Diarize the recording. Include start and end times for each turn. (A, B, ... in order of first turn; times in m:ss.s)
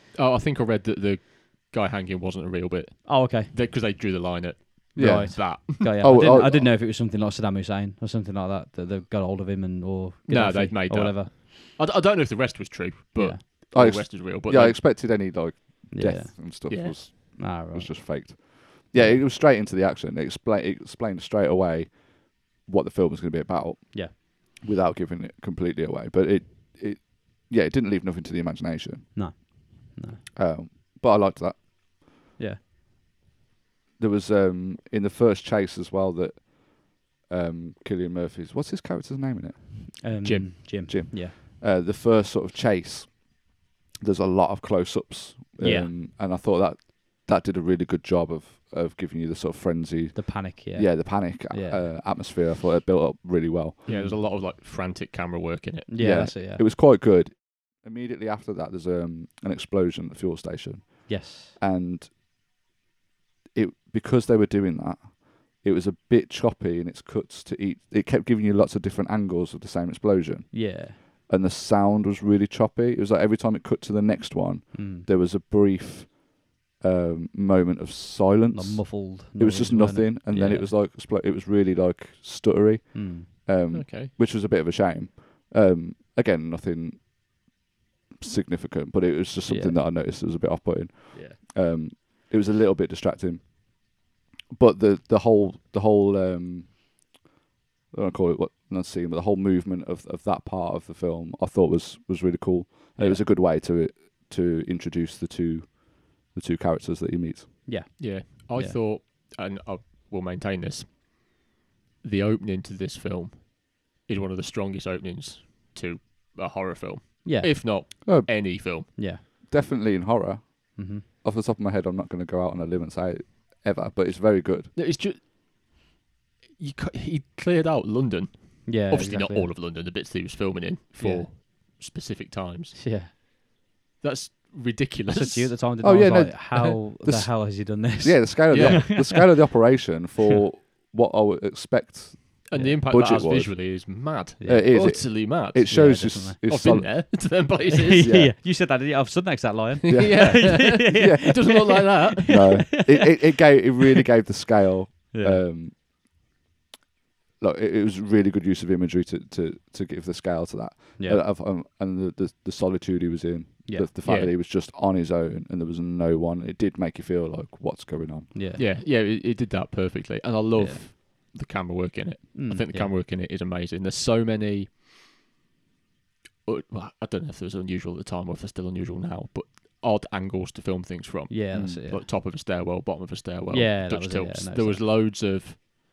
0:00.1-0:05.9 A
0:03.0-0:03.5 B
0:04.9-0:06.7 C
0:05.0-0:11.3 B
0:10.3-0:14.8 A
0:13.7-0:29.1 C
0:15.9-0:18.4 B
0:16.7-0:17.1 A
0:18.9-0:19.2 B
0:29.1-0:30.2 B
0:30.4-0:32.0 C
0:34.0-0:40.0 C
0:40.0-0:41.4 B
0:40.2-0:40.8 A
0:40.9-0:43.5 C
0:44.0-0:54.0 C
0:45.6-0:45.9 B
0:50.1-0:51.9 B
0:53.8-0:55.9 A
0:53.9-0:54.2 B
0:55.9-0:56.6 B
0:55.9-1:02.1 C
1:01.1-1:01.6 B
1:03.5-1:27.1 C
1:10.5-1:11.0 B
1:14.7-1:15.1 B
1:18.5-1:20.7 B
1:22.9-1:23.3 B
1:23.7-1:24.1 A
1:28.2-1:34.0 C
1:29.5-1:29.8 B
1:31.1-1:31.4 B
1:34.5-1:36.8 C
1:37.9-1:47.6 C
1:43.0-1:43.2 B
1:47.6-1:48.8 B
1:48.0-1:51.0 A
1:52.0-1:58.9 A
1:57.2-1:59.2 B
1:58.0-2:04.7 C
2:00.8-2:01.0 B
2:04.7-2:05.3 A
2:06.6-2:12.8 A
2:08.6-2:09.5 B
2:11.0-2:11.3 B
2:12.7-2:13.1 B
2:14.0-2:15.6 A
2:15.1-2:19.2 B
2:15.8-2:23.7 C
2:18.5-2:19.0 A
2:22.5-2:28.1 A
2:22.5-2:22.8 B
2:24.4-2:25.1 B
2:24.4-2:27.3 C
2:25.7-2:26.4 B
2:27.7-2:33.2 B
2:28.0-2:28.3 C
2:29.9-2:32.4 A
2:29.9-2:31.7 C
2:32.2-2:35.9 C
2:35.1-2:35.4 B
2:37.4-2:48.3 C
2:41.0-2:41.2 B
2:44.0-2:44.3 A
2:48.3-2:48.6 B
2:48.6-2:54.7 A
2:50.5-2:50.8 B
2:52.3-2:53.0 B
2:56.4-3:05.6 A
3:01.3-3:02.0 B
3:01.5-3:01.8 C
3:03.5-3:04.8 B